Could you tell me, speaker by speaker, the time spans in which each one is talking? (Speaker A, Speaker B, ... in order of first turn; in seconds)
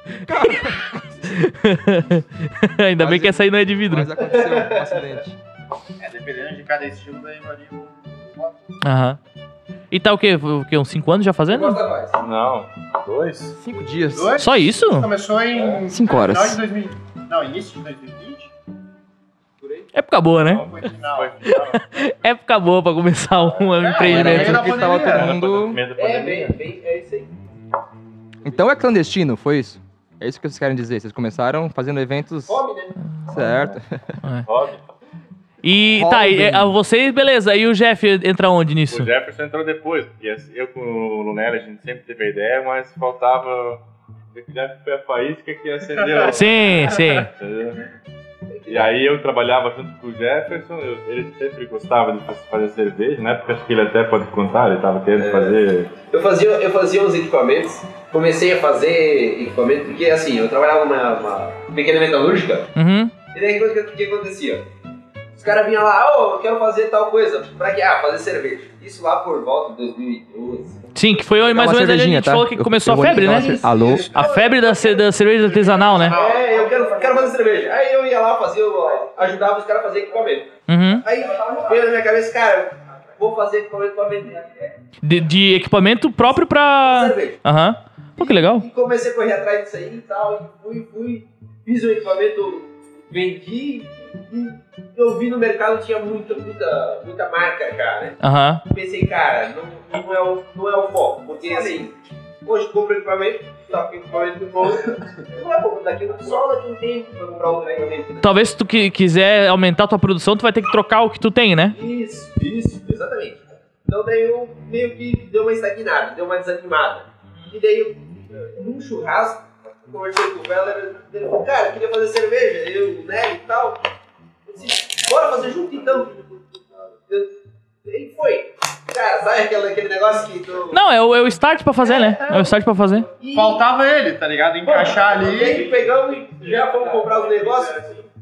Speaker A: 0.2-1.3, 3.0-5.4, 11.5-12.2, 13.6-14.4, 15.9-16.6, 24.0-25.8, 28.4-32.6, 33.3-34.1, 36.0-36.7, 71.5-74.1
Speaker B: 1.2-4.1, 8.8-9.2, 9.9-11.8, 14.4-15.1, 19.9-20.7, 21.5-24.7, 35.6-39.1, 46.2-47.3, 62.8-63.1, 71.0-76.2, 80.7-81.1, 85.0-88.7, 98.2-98.6, 108.2-111.8, 130.7-133.1
Speaker C: 4.3-5.0, 19.6-19.9, 26.0-27.3, 32.5-33.0, 48.5-48.9, 55.2-62.7, 63.3-64.7, 65.4-70.8, 73.1-74.5, 76.0-84.7, 86.8-87.4, 88.2-108.3, 111.7-123.8, 124.5-126.1, 127.1-130.8, 133.2-133.7, 134.6-137.9
Speaker D: 6.0-8.6, 14.1-18.5, 20.5-21.8, 23.8-25.3, 73.3-77.4, 133.3-135.7
Speaker E: 12.2-13.6, 15.5-15.8, 20.5-21.8, 24.4-26.6, 34.5-34.8, 38.9-43.8, 44.3-47.9, 48.7-55.9, 125.7-126.2, 135.5-137.9